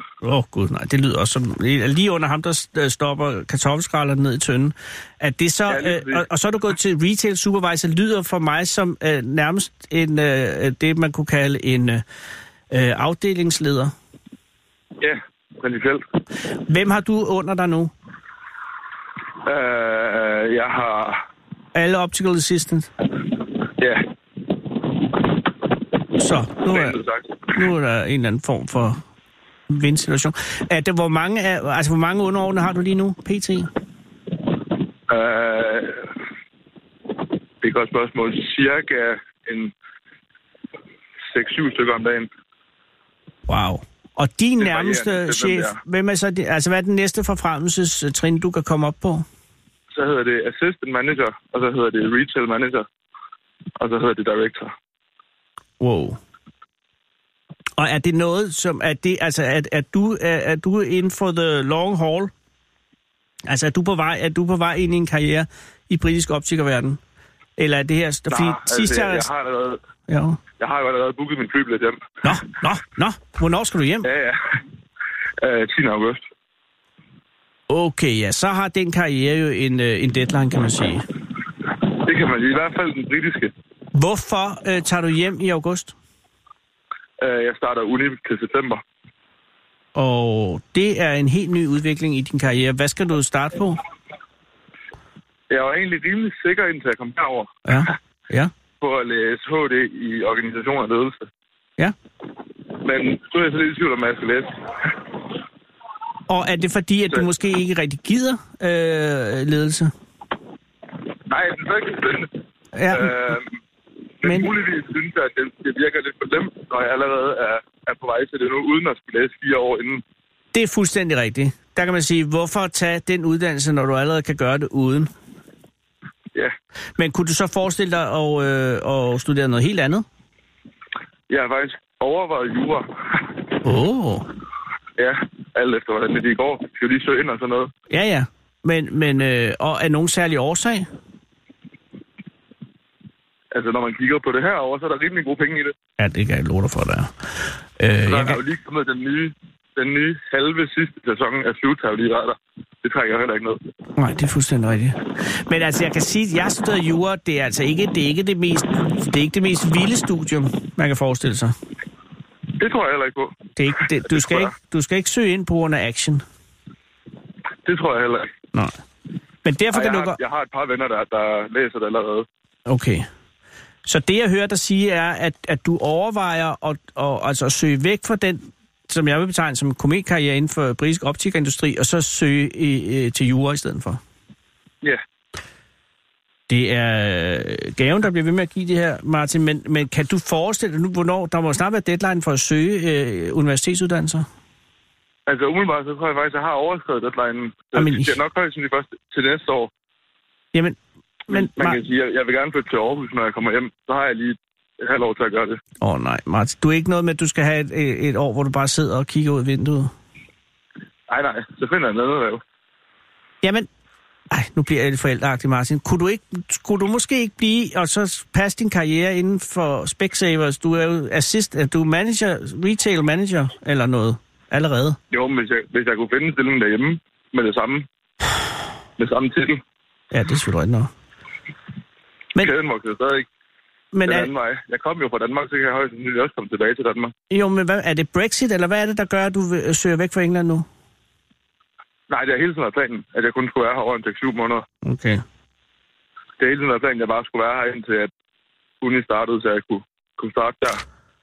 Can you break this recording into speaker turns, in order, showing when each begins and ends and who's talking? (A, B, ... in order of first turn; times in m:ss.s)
0:00.2-0:12.0 A
0:05.7-0:06.2 B
0:12.7-0:13.9 A
0:15.0-0:16.0 B
0:16.7-0:17.9 A
0:19.4-0:21.2 B
0:21.7-0:22.9 A
0:23.8-0:24.0 B
0:26.2-0:27.0 A
0:26.7-0:27.4 B
0:27.5-0:29.0 A
0:29.7-0:33.7 A
0:35.1-0:36.1 B
0:37.6-0:39.7 B
0:41.3-0:42.3 B
0:43.5-0:49.2 A
0:44.6-0:45.8 B
0:49.9-0:52.8 B
0:53.8-0:54.7 B
0:55.8-0:56.2 A
0:57.8-1:02.3 A
1:03.4-1:07.0 A
1:07.6-1:09.3 A
1:08.3-1:09.8 B
1:10.1-1:10.4 A
1:10.6-1:12.0 B
1:12.2-1:14.1 A
1:14.0-1:14.4 B
1:15.4-1:16.2 B
1:17.7-1:21.0 A
1:21.9-1:23.5 B
1:23.9-1:25.9 A
1:27.2-1:28.8 B
1:29.9-1:33.8 A
1:35.5-1:37.5 B
1:37.6-1:38.5 A
1:38.8-1:41.3 B
1:42.8-1:44.5 B
1:46.3-1:49.9 A
1:51.2-1:52.4 B
1:52.7-1:53.3 A
1:52.9-1:53.4 B
1:54.2-2:00.0 B
1:54.2-1:54.5 A
2:00.5-2:05.1 A
2:07.0-2:10.0 A
2:11.3-2:13.4 B
2:13.6-2:14.3 A
2:15.0-2:17.7 B
2:17.9-2:20.9 A
2:23.5-2:25.7 B
2:26.0-2:28.4 A
2:28.0-2:33.6 B
2:34.0-2:41.5 A
2:42.6-2:43.4 B
2:43.6-2:46.2 A
2:44.0-2:44.5 B
2:47.6-2:48.3 B
2:49.4-2:50.2 A
2:49.7-2:52.3 B
2:52.7-2:53.1 A
2:53.8-3:04.0 A
3:06.5-3:14.2 A
3:15.3-3:19.7 B
3:17.8-3:18.2 A
3:21.3-3:21.8 A
3:21.3-3:25.6 B
3:25.8-3:29.9 A
3:31.1-3:32.4 B
3:33.4-3:33.7 A
3:34.3-3:45.0 A
3:45.1-3:47.8 B
3:49.0-3:49.6 B
3:50.1-3:50.9 A
3:52.4-3:53.2 B
3:53.9-3:54.3 A
3:54.0-3:57.1 B
3:57.3-4:00.6 A
4:02.1-4:04.6 B
4:04.8-4:05.2 A
4:06.4-4:08.1 B
4:08.8-4:10.8 B